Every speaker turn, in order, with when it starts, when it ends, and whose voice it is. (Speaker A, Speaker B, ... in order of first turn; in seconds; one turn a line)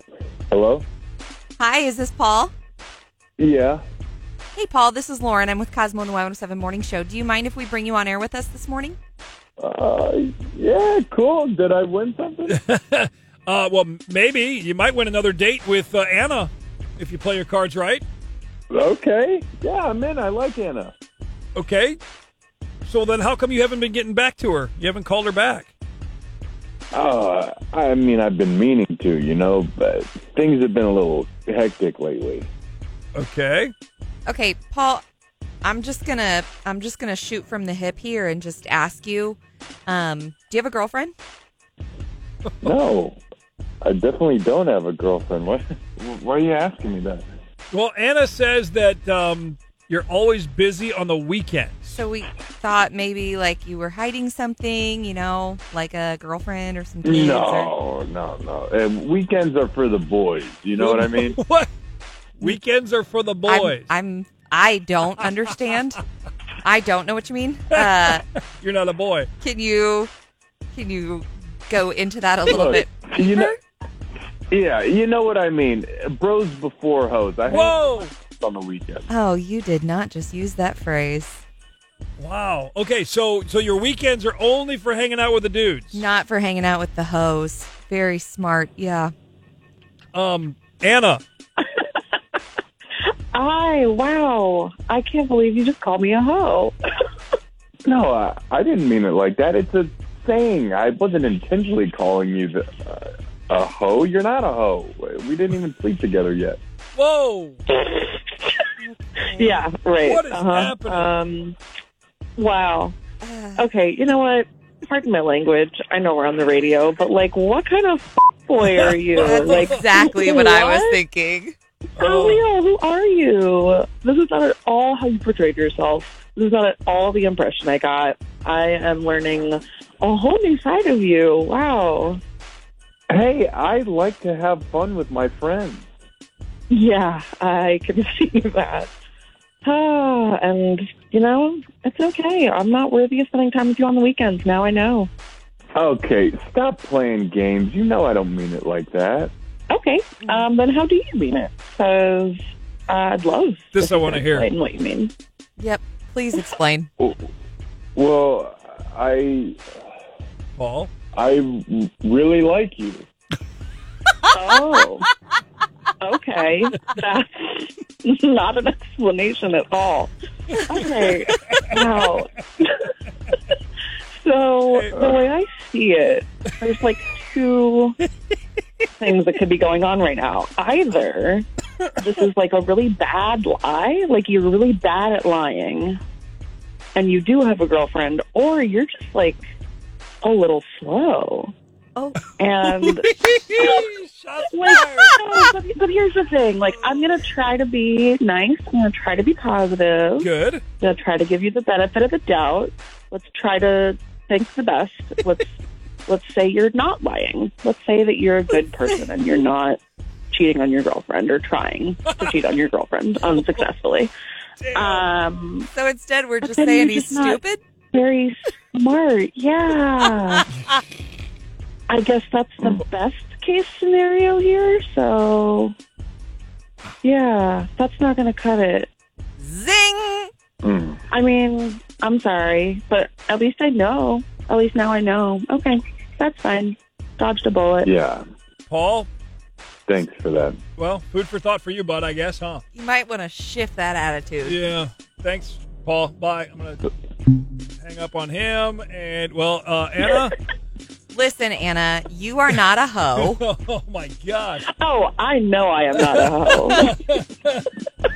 Speaker A: 0.5-0.8
Speaker B: 1.6-2.5
Speaker A: 3.4-3.8
Speaker B: 4.5-9.0
Speaker A: 9.6-12.6
Speaker C: 12.5-18.0
Speaker A: 18.7-20.9
Speaker C: 21.6-22.0
Speaker C: 22.9-25.7
Speaker A: 26.9-32.5
Speaker C: 33.1-33.7
Speaker B: 34.3-35.0
Speaker B: 35.6-41.1
Speaker A: 42.6-43.2
Speaker A: 43.8-47.2
Speaker C: 47.7-52.0
Speaker B: 51.9-57.7
Speaker A: 57.0-61.4
Speaker C: 60.8-61.7
Speaker C: 62.4-63.9
Speaker B: 63.5-66.0
Speaker B: 66.6-68.2
Speaker C: 67.7-69.3
Speaker B: 69.4-70.1
Speaker B: 70.7-73.6
Speaker A: 72.5-73.6
Speaker A: 74.5-79.1
Speaker C: 77.5-78.1
Speaker B: 79.1-81.4
Speaker C: 82.2-86.0
Speaker B: 85.9-89.1
Speaker C: 90.1-91.2
Speaker D: 91.6-91.8
Speaker D: 93.3-96.8
Speaker A: 97.8-106.6
Speaker C: 107.0-107.6
Speaker D: 107.7-108.3
Speaker B: 108.8-109.6
Speaker D: 109.3-111.6
Speaker C: 110.0-111.1
Speaker D: 112.4-113.0
Speaker B: 113.2-113.7
Speaker D: 113.6-121.0
Speaker C: 118.8-119.7
Speaker B: 119.2-121.6
Speaker C: 122.0-122.4
Speaker D: 122.0-132.2
Speaker A: 133.1-135.9
Speaker D: 136.7-138.9
Speaker D: 139.6-145.1
Speaker A: 145.8-149.3
Speaker D: 149.7-155.1
Speaker C: 153.7-154.5
Speaker B: 155.6-156.9
Speaker A: 158.0-159.6
Speaker C: 160.6-160.9
Speaker A: 161.2-163.1
Speaker D: 164.3-165.1
Speaker D: 166.0-172.9
Speaker C: 170.9-171.7
Speaker D: 174.1-178.0
Speaker C: 174.7-175.1
Speaker D: 178.9-181.5
Speaker D: 182.0-186.0
Speaker D: 186.9-189.4
Speaker D: 190.2-191.5
Speaker D: 192.4-193.8
Speaker C: 192.7-195.3
Speaker D: 194.5-200.3
Speaker C: 200.2-200.6
Speaker D: 200.8-205.5
Speaker D: 206.1-209.8
Speaker D: 210.3-214.1
Speaker C: 214.6-215.1
Speaker D: 214.7-215.7
Speaker B: 215.7-217.6
Speaker D: 216.4-217.4
Speaker D: 217.9-220.4
Speaker D: 221.9-225.7
Speaker D: 227.0-228.9
Speaker B: 229.4-230.3
Speaker A: 230.6-231.0
Speaker D: 231.1-237.9
Speaker A: 237.8-238.2
Speaker C: 238.7-239.1
Speaker A: 239.9-240.6
Speaker C: 240.8-242.6
Speaker B: 242.8-244.6
Speaker C: 244.4-246.9
Speaker C: 247.8-250.4
Speaker B: 251.1-253.4
Speaker C: 253.1-254.7
Speaker D: 254.7-256.9
Speaker C: 255.9-257.8